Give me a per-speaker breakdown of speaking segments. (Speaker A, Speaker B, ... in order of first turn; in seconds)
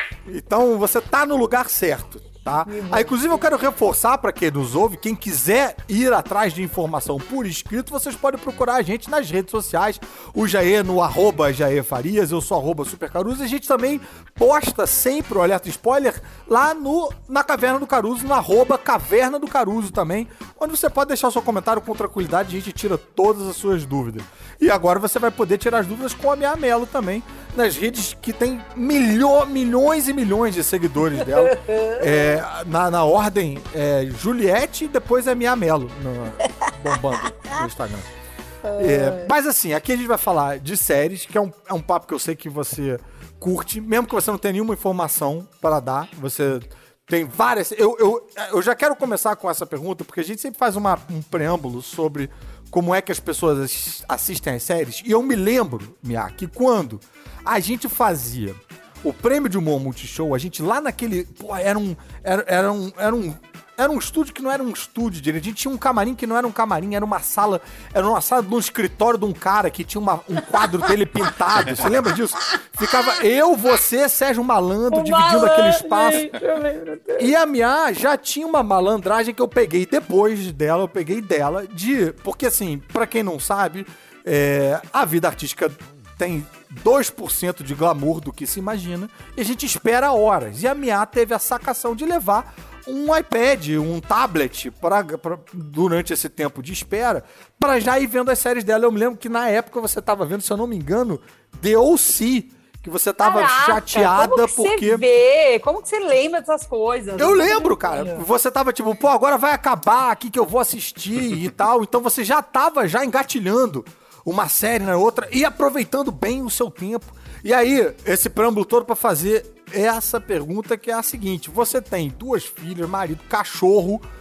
Speaker A: 0.3-38.1, 38.8-76.3, 77.2-105.0, 107.2-124.0
Speaker B: 2.7-3.4, 31.2-32.4, 38.6-39.3, 74.9-77.3, 103.2-108.2